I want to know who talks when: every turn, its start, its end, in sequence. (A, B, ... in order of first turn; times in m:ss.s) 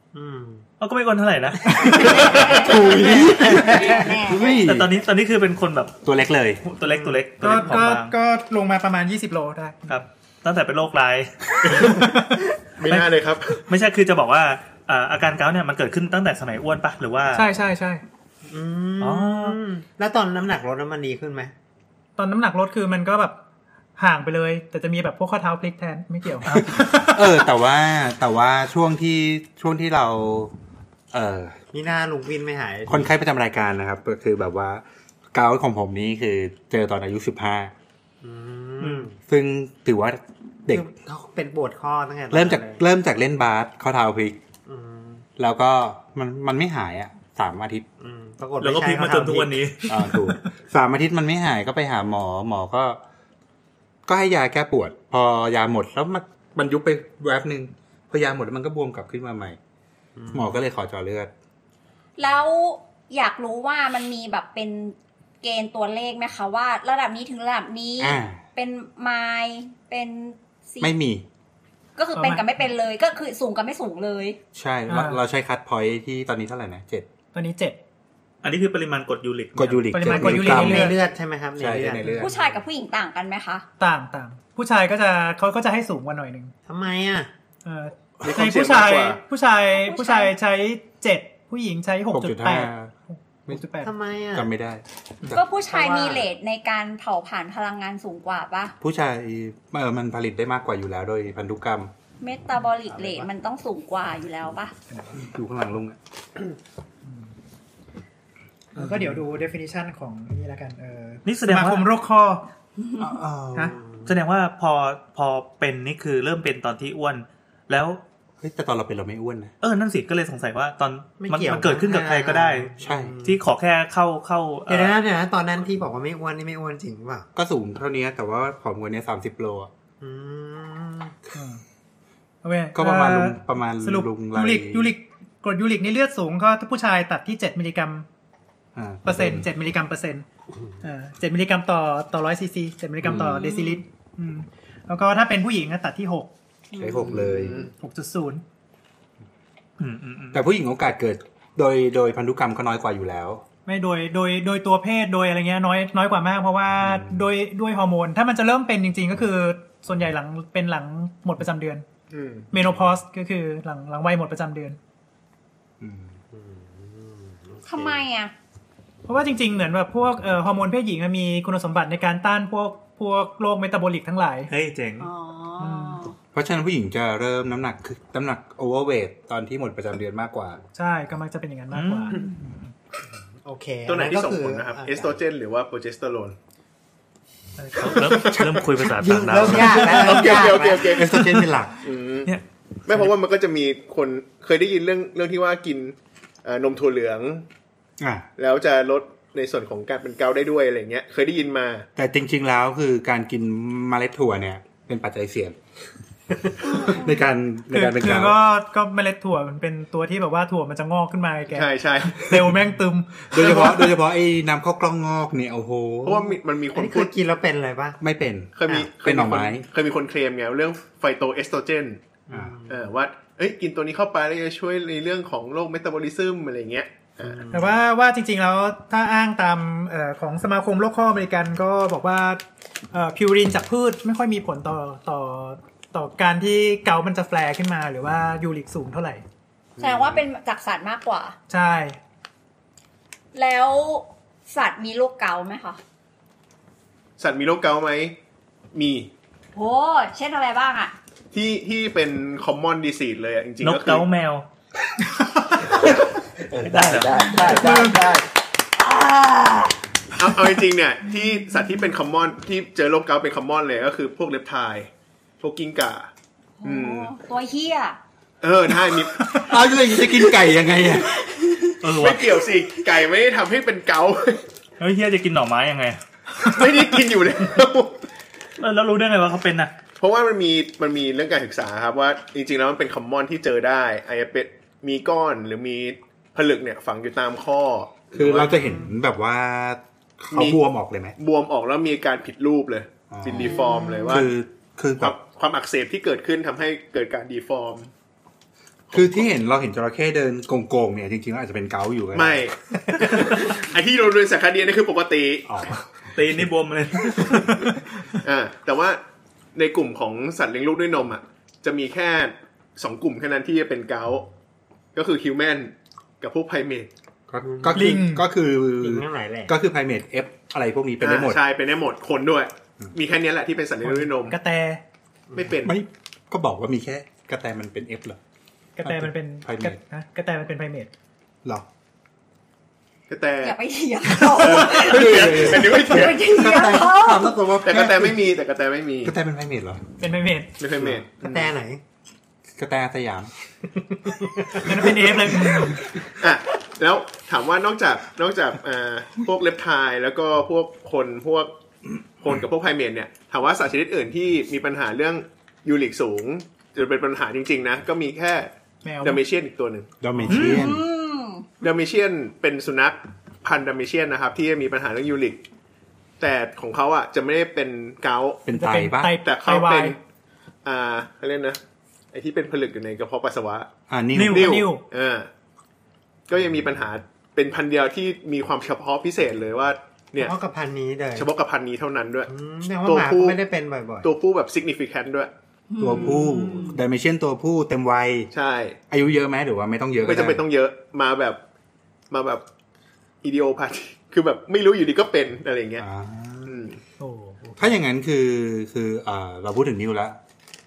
0:00.1-0:00.6 A
0:00.8-0:02.4 B
0:01.8-0:02.1 C
0:01.9-0:04.9 D
0:01.9-0:04.6 E
0:02.8-0:04.6 A
0:04.6-0:06.0 B
0:06.0-0:06.6 D
0:06.6-0:08.1 B
0:06.8-0:07.2 A
0:07.4-0:09.9 C
0:09.9-0:12.0 B
0:11.7-0:13.0 C
0:12.8-0:13.6 F
0:13.7-0:17.5 B
0:17.3-0:18.0 C
0:18.5-0:21.5 A
0:19.0-0:19.6 B
0:22.2-0:23.4 C
0:24.0-0:27.2 C
0:26.5-0:30.5 D
0:31.1-0:31.6 D
0:31.7-0:33.1 A
0:32.9-0:34.8 D
0:35.3-0:37.7 D
0:38.2-0:39.1 A
0:39.2-0:40.9 D
0:40.7-0:42.8 A
0:42.3-0:44.4 D
0:44.6-0:45.2 A
0:45.4-0:47.8 D
0:48.0-0:49.6 A
0:48.6-0:50.4 B
0:49.9-0:53.0 D
0:54.1-0:59.6 D
1:00.2-1:00.6 A
1:00.3-1:01.3 D
1:02.2-1:10.9 E
1:08.0-1:08.4 D
1:10.8-1:11.2 D
1:12.0-1:14.4 E
1:12.2-1:12.5 C
1:14.5-1:17.1 D
1:14.9-1:15.2 C
1:17.3-1:17.8 C
1:18.4-1:19.9 B
1:19.5-1:21.0 D
1:19.9-1:20.9 C
1:20.1-1:22.4 A
1:21.6-1:22.4 D
1:22.2-1:23.6 E
1:23.8-1:26.5 C
1:26.6-1:27.3 A
1:27.6-1:33.9 C
1:28.2-1:29.2 F
1:29.7-1:30.3 E
1:32.1-1:32.9 D
1:33.8-1:34.5 A
1:34.3-1:35.4 D
1:35.3-1:38.7 E
1:35.6-1:36.3 A
1:38.8-1:41.9 D
1:42.2-1:44.7 E
1:42.9-1:43.3 A
1:45.1-1:46.0 D
1:48.7-1:52.4 C
1:48.8-1:49.2 D
1:51.2-1:51.9 B
1:53.0-1:53.8 D
1:53.7-1:54.1 A
1:54.0-1:58.0 B
1:58.4-1:59.5 D
1:59.6-2:02.7 B
2:01.2-2:03.4 A
2:02.8-2:03.2 D
2:03.2-2:05.0 B
2:04.7-2:07.2 A
2:07.4-2:09.7 D
2:10.0-2:11.1 A
2:11.3-2:11.6 C
2:12.4-2:18.0 C
2:12.7-2:14.9 D
2:18.7-2:19.5 D
2:19.0-2:20.2 C
2:20.8-2:26.3 C
2:23.0-2:23.4 D
2:23.4-2:23.8 E
2:26.8-2:27.7 D
2:26.8-2:27.5 A
2:27.8-2:28.4 C
2:29.8-2:30.4 B
2:30.3-2:33.4 D
2:33.6-2:41.8 C
2:36.8-2:37.3 D
2:42.1-2:42.5 F
2:42.5-2:44.8 C
2:45.8-2:46.1 D
2:46.3-2:48.0 A
2:47.6-2:48.3 E
2:49.1-2:54.5 C
2:54.5-2:55.1 B
2:55.0-2:56.1 E
2:55.6-2:56.1 C
2:56.3-3:00.6 D
3:00.7-3:02.2 C
3:01.7-3:02.7 B
3:03.4-3:05.2 A
3:03.8-3:06.4 F
3:07.6-3:10.1 B
3:08.0-3:08.4 F
3:08.1-3:11.8 D
3:09.0-3:10.9 A
3:09.7-3:11.3 F
3:11.8-3:12.3 F
3:12.2-3:13.1 B
3:12.9-3:17.4 F
3:18.0-3:18.3 D
3:18.4-3:21.9 F
3:22.0-3:25.6 D
3:26.5-3:28.4 D
3:27.7-3:33.9 C
3:31.5-3:32.4 F
3:33.3-3:36.4 D
3:36.0-3:37.1 F
3:36.7-3:38.0 A
3:38.0-3:39.6 D
3:38.6-3:42.0 F
3:42.3-3:42.9 A
3:42.7-3:47.5 F
3:47.2-3:47.8 A
3:47.5-3:59.2 C
3:59.8-4:00.2 D
3:59.8-4:01.4 E
4:01.5-4:02.0 C
4:03.3-4:05.8 E
4:07.2-4:08.2 F
4:08.7-4:09.1 F
4:09.5-4:10.9 E
4:11.3-4:14.0 F
4:13.6-4:14.4 B
4:15.7-4:18.2 D
4:16.6-4:18.1 B
4:18.8-4:19.7 E
4:20.2-4:24.9 F
4:25.4-4:26.1 F
4:26.6-4:28.0 E
4:26.6-4:27.1 F
4:28.4-4:29.4 F
4:29.3-4:31.2 D
4:31.8-4:32.4 B
4:31.9-4:34.4 F
4:34.8-4:36.0 B
4:36.4-4:38.0 F
4:38.6-4:39.7 B
4:40.0-4:48.6 F
4:48.1-4:51.1 D
4:48.4-4:48.9 A
4:50.3-4:50.6 F
4:51.2-4:54.3 F
4:53.1-4:55.2 D
4:53.3-4:54.2 E
4:55.0-4:57.9 F
4:58.9-4:59.2 F
4:58.9-5:03.0 D
5:02.1-5:05.5 F
5:05.5-5:06.4 D
5:06.1-5:07.5 B
5:08.2-5:09.0 F
5:09.5-5:14.3 F
5:14.9-5:16.9 F
5:17.3-5:21.4 D
5:17.4-5:18.0 A
5:17.7-5:18.2 C
5:18.8-5:19.5 A
5:21.0-5:24.4 F
5:23.8-5:24.8 C
5:25.3-5:25.6 A
5:25.3-5:25.7 F
5:25.6-5:28.2 D
5:28.8-5:30.9 C
5:28.8-5:29.8 D
5:33.1-5:33.6 F
5:33.4-5:37.4 E
5:34.2-5:36.3 F
5:34.4-5:38.2 D
5:36.5-5:37.2 A
5:37.6-5:39.1 F
5:39.0-5:39.8 D
5:40.0-5:40.5 C
5:40.6-5:41.5 F
5:40.8-5:41.8 A
5:42.6-5:43.3 D
5:44.0-5:44.8 A
5:44.6-5:45.8 C
5:45.4-5:45.7 D
5:46.2-5:51.5 F
5:52.2-5:59.9 F
5:58.8-5:59.2 C
6:00.0-6:00.8 D
6:00.1-6:00.6 C
6:00.3-6:00.6 B
6:00.4-6:01.4 E
6:01.6-6:05.4 F
6:06.2-6:08.4 F
6:08.4-6:09.2 D
6:08.5-6:10.0 C
6:09.2-6:10.0 F
6:10.6-6:11.6 F
6:12.1-6:13.7 F
6:13.9-6:14.5 D
6:14.2-6:14.8 C
6:14.3-6:15.3 F
6:16.3-6:20.4 F
6:20.2-6:21.3 A
6:21.1-6:22.3 F
6:22.3-6:24.1 A
6:22.8-6:23.4 F
6:24.0-6:25.3 F
6:25.7-6:26.8 E
6:25.8-6:28.3 D
6:28.3-6:28.8 F
6:28.9-6:30.4 D
6:30.0-6:31.4 F
6:32.1-6:32.4 F
6:33.2-6:35.8 F
6:35.8-6:36.6 D
6:36.4-6:36.8 F
6:37.0-6:37.5 C
6:37.6-6:40.2 D